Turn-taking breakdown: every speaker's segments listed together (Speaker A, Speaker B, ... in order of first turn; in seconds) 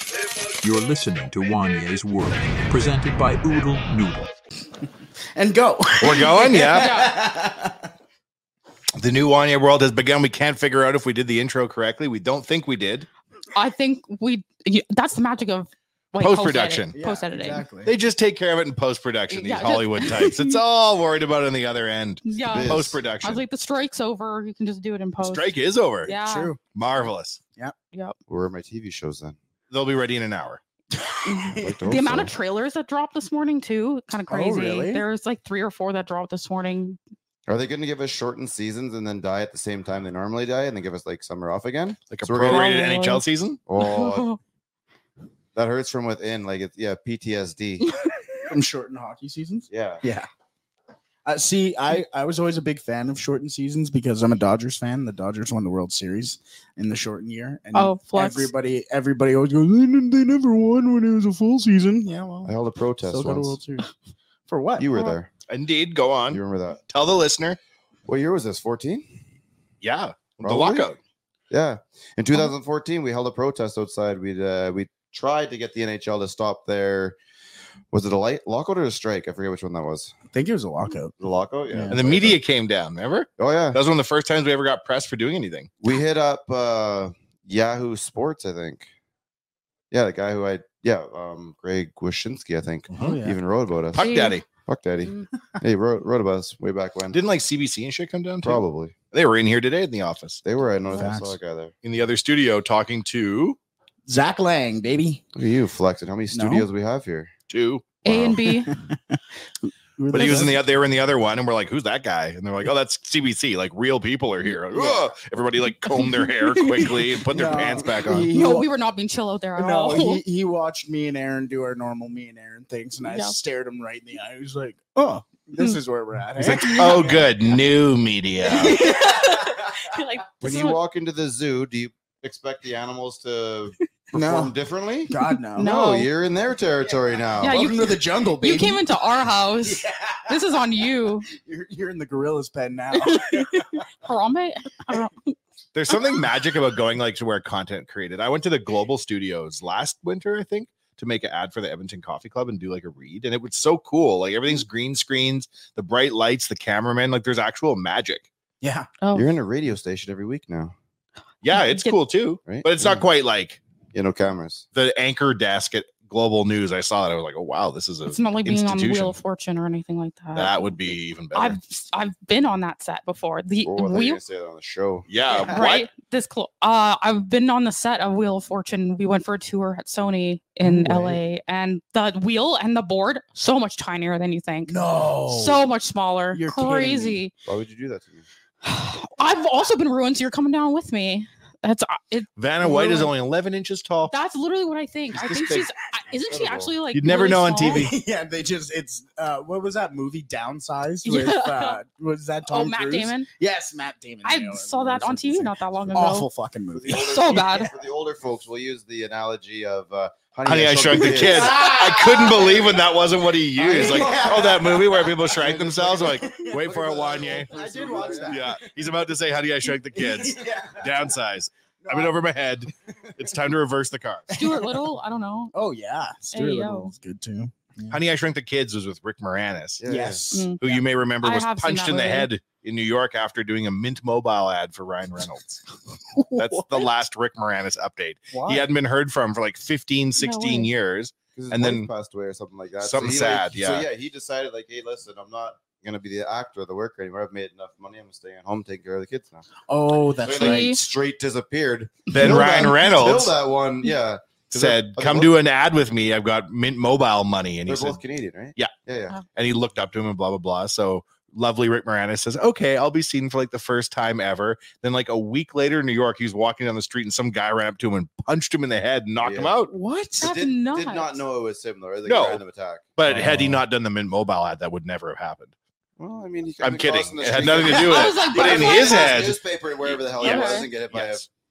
Speaker A: 0.2-4.3
Speaker B: 5.3-7.9, 16.9-17.9, 26.2-26.6, 30.9-32.3, 34.3-35.0, 48.5-50.3, 51.2-62.5, 63.1-63.9, 64.5-64.9, 80.3-81.1, 81.7-82.0, 92.9-93.4, 100.9-101.4, 104.1-105.2, 106.3-106.7, 108.6-110.6, 117.3-118.7, 119.6-127.3, 128.5-129.7, 134.1-134.5, 135.1-135.7, 137.4-139.0, 139.6-140.4, 141.3-143.7, 158.6-158.9, 175.3-175.6, 180.6-181.2, 184.7-185.7, 186.3-187.2, 197.6-207.7, 211.1-212.8, 213.6-215.1, 216.2-218.6, 219.9-220.9, 221.8-222.2, 224.4-224.8, 225.5-228.0, 229.9-230.6, 236.1-236.8, 238.3-238.7, 249.7-250.8, 269.7-270.3, 273.1-273.6
Speaker C: 6.0-7.0, 9.0-13.1, 16.2-16.9, 17.9-23.4, 25.2-26.1, 26.7-27.4, 29.7-30.6, 42.1-43.6, 65.5-67.6, 69.8-71.0, 81.9-85.7, 93.9-94.5, 97.1-100.4, 101.8-103.6, 107.5-108.4, 110.1-118.3, 126.4-128.9, 145.7-158.3, 161.4-163.6, 164.8-169.2, 170.3-171.6, 175.1-175.9, 192.4-194.1, 195.1-195.7, 196.9-197.9, 210.4-217.5, 218.2-224.4, 227.9-229.8, 230.6-235.7, 236.3-241.9, 242.8-243.9, 252.1-253.3, 254.5-258.0, 259.3-269.7, 272.1-272.4, 273.0-275.5, 276.6-279.4, 280.2-281.3
Speaker D: 6.7-7.1, 13.5-17.6, 19.3-20.6, 22.2-25.5, 26.1-26.5, 31.3-37.0, 42.4-43.2, 43.8-44.4, 47.8-48.3, 57.7-58.5, 94.0-94.4, 108.0-108.7, 116.0-117.1, 118.3-120.2, 123.0-123.4, 126.5-127.1, 128.5-130.8, 135.6-136.1, 137.4-141.3, 142.9-145.4, 159.0-159.3, 161.5-162.0, 168.1-174.2, 175.4-184.8, 185.3-187.3, 188.6-193.1, 194.1-197.9, 201.1-201.8, 202.5-203.3, 204.2-206.3, 206.9-207.7, 224.3-225.5, 226.3-226.9, 230.3-230.7, 231.2-232.3, 240.2-240.7, 250.3-250.8, 270.2-271.1, 277.7-279.4, 280.1-280.7
Speaker E: 22.5-23.1, 28.3-29.4, 31.6-32.3, 37.5-43.0, 43.7-44.3, 45.5-47.9, 49.7-50.0, 62.5-63.6, 64.8-65.3, 66.3-66.8, 68.1-69.1, 70.4-70.9, 71.5-77.2, 77.9-80.1, 81.2-82.4, 83.4-83.8, 85.8-88.9, 89.9-97.2, 98.4-99.0, 100.4-101.7, 105.3-107.3, 108.1-108.5, 117.5-118.4, 130.4-138.0, 159.1-160.7, 162.4-163.0, 163.9-164.7, 173.7-175.1, 187.4-188.2, 196.3-196.7, 206.8-212.8, 213.6-218.7, 229.8-230.3, 241.4-249.5, 250.2-255.3, 257.7-259.2, 269.2-269.5, 270.2-272.9, 276.0-281.3